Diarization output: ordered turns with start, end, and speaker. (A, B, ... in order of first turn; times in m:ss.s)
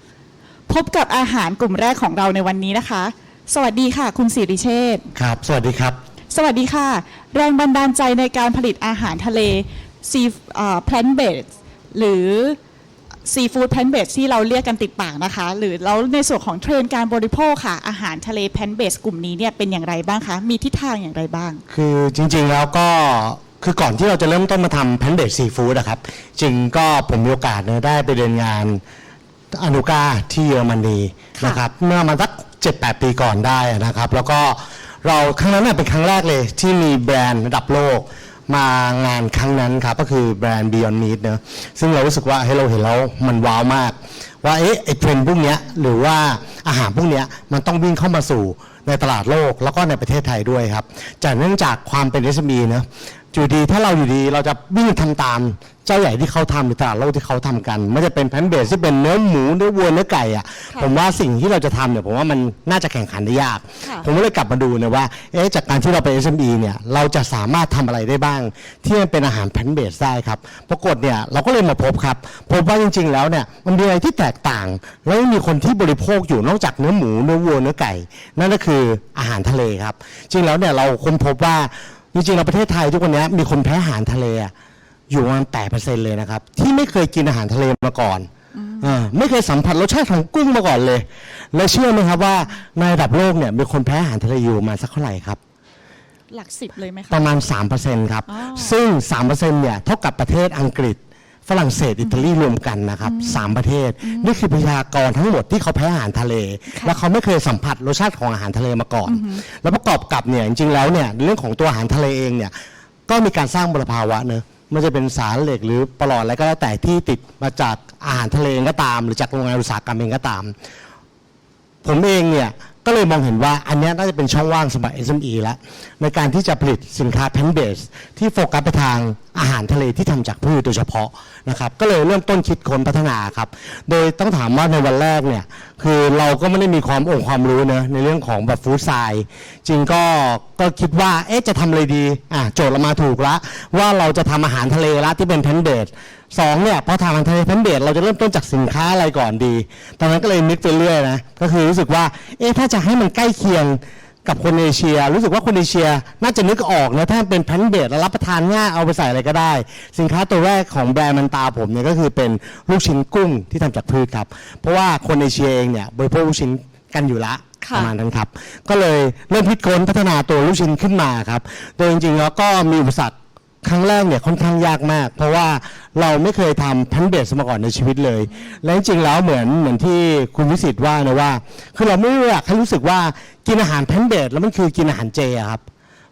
0:00.7-0:05.1 A
0:05.2-0:06.0 B
0:06.3-0:12.6 A
0:13.3-0:21.6 A
0:21.7-0:28.8 B
0:29.5-1:24.5 B
0:31.4-0:31.6 A
1:03.8-1:04.1 A
1:25.1-1:28.3 B
1:28.6-1:29.0 A
1:28.8-1:35.4 B
1:36.3-1:37.3 A
1:37.1-1:52.5 B
1:38.3-1:38.8 A
1:42.0-1:42.3 A
1:43.0-1:44.4 A
1:46.7-1:47.0 A
1:49.1-1:49.4 A
1:53.1-2:00.5 B
2:01.8-3:05.6 B
2:47.6-2:47.9 A